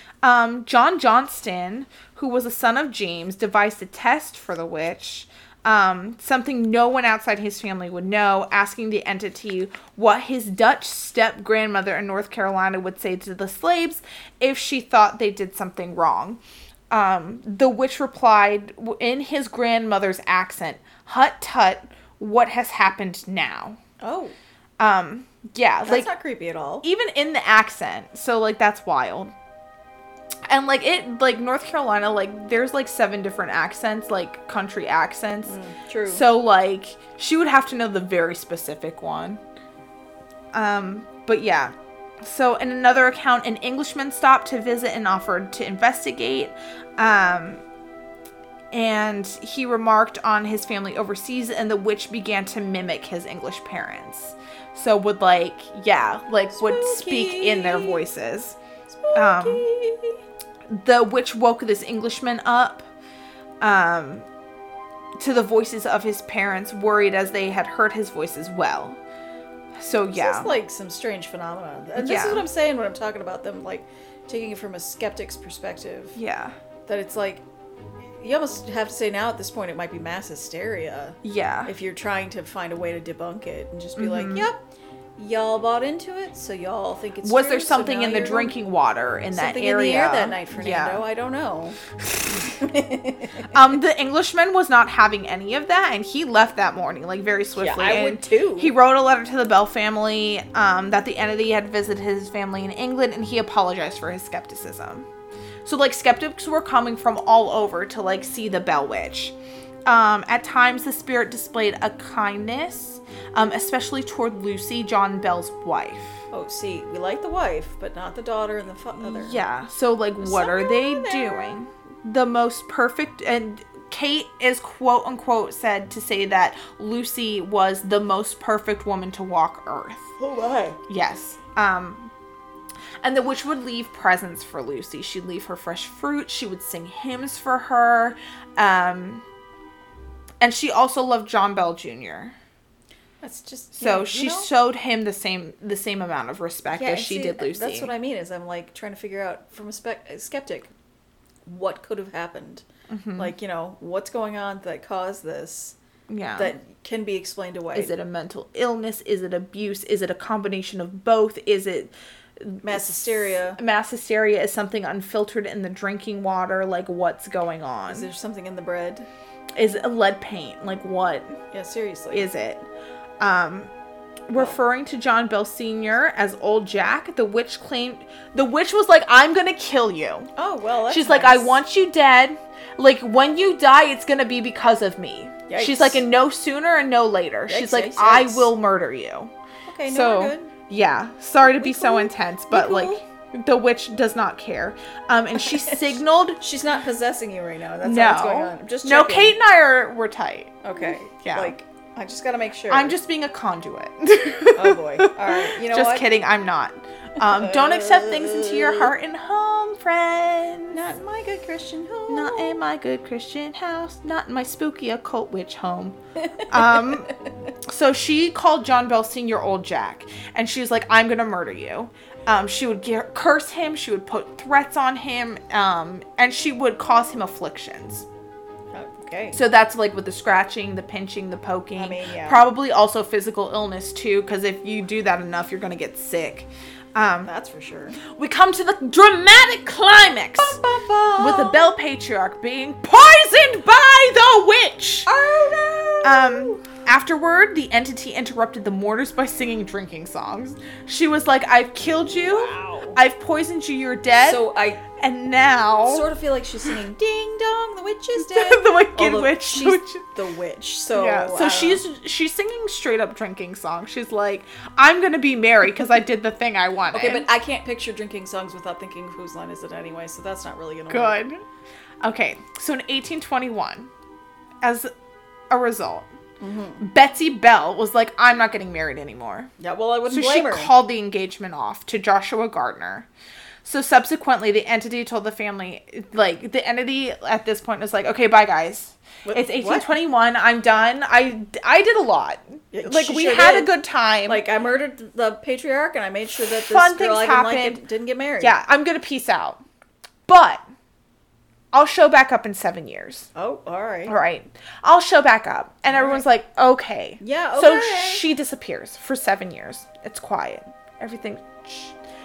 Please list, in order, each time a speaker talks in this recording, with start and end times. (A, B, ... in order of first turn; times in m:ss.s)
0:00.2-0:23.8 A
0:24.0-0:24.4 B
0:24.8-0:26.1 A
0:25.8-0:26.9 B
0:26.8-0:29.3 A
0:30.5-0:35.6 A
0:35.4-0:36.2 B
0:36.1-0:39.4 A
0:40.5-0:47.6 A
0:48.7-0:58.6 A
0:56.5-0:58.0 B
0:58.9-1:00.2 B
0:59.2-0:59.7 A
1:00.7-1:02.9 A
1:03.6-1:04.3 A
1:05.2-1:09.0 A
1:09.8-1:10.6 A
1:10.1-1:16.2 B
1:12.0-1:12.5 A
1:16.2-1:16.6 A
1:16.9-1:17.4 B
1:18.0-1:28.6 B
1:21.2-1:21.7 A
1:24.0-1:24.5 A
1:27.2-1:31.1 A
1:29.3-1:33.5 B
1:32.0-1:32.4 A
1:33.5-1:45.1 A
1:37.6-1:38.7 B
1:45.6-1:49.4 A
1:49.9-1:56.2 A
1:56.3-1:59.4 B
1:59.0-2:10.1 A
2:00.2-2:01.6 B
2:10.2-2:10.8 B
2:10.9-2:12.1 A
2:13.0-2:19.2 A
2:20.4-2:22.4 A
2:23.2-2:24.5 B
2:23.8-2:27.9 A
2:26.7-2:30.7 B
2:31.5-2:32.6 B
2:32.9-2:33.3 A
2:33.2-2:35.8 B
2:36.1-2:36.5 A
2:36.4-2:37.9 B
2:37.7-2:48.1 A
2:42.6-2:43.6 B
2:47.9-2:49.1 B
2:49.6-2:51.4 A
2:51.5-2:52.3 B
2:52.1-2:52.6 A
2:53.2-2:53.7 A
2:54.3-3:00.3 A
3:00.4-3:01.6 B
3:00.9-3:09.3 A
3:05.5-3:06.0 B
3:07.5-3:08.5 B
3:09.7-3:10.5 B
3:09.9-3:16.4 A
3:11.4-3:13.0 B
3:15.4-3:15.8 B
3:16.4-3:19.4 B
3:17.8-3:20.6 A
3:20.6-3:23.0 B
3:21.2-3:21.5 A
3:22.7-3:30.8 A
3:24.5-3:26.1 B
3:27.2-3:28.9 B
3:30.7-3:32.6 B
3:32.1-3:48.1 A
3:36.2-3:37.3 B
3:48.7-3:49.4 B
3:49.3-3:57.3 A
3:51.8-3:52.4 B
3:57.2-3:58.0 B
3:58.0-4:00.6 A
4:00.4-4:01.7 B
4:01.2-4:05.1 A
4:05.1-4:06.6 B
4:06.0-4:16.1 A
4:12.2-4:13.0 B
4:14.2-4:14.9 B
4:15.8-4:21.8 B
4:18.2-4:20.1 A
4:20.9-4:27.3 A
4:26.9-4:31.2 B
4:30.9-4:31.4 A
4:32.0-4:33.9 A
4:34.6-4:34.9 A
4:35.5-4:36.1 A
4:36.4-4:36.9 B
4:36.8-4:39.5 A
4:39.6-4:40.7 B
4:40.1-4:43.1 A
4:43.6-4:54.4 A
4:49.2-4:49.9 B
4:52.7-4:53.7 B
4:54.3-4:58.6 B
4:56.5-4:57.8 A
4:58.4-4:59.6 A
5:00.3-5:00.6 A
5:01.7-5:03.3 A
5:03.4-5:04.2 B
5:04.1-5:12.0 A
5:05.9-5:06.2 B
5:07.2-5:08.2 B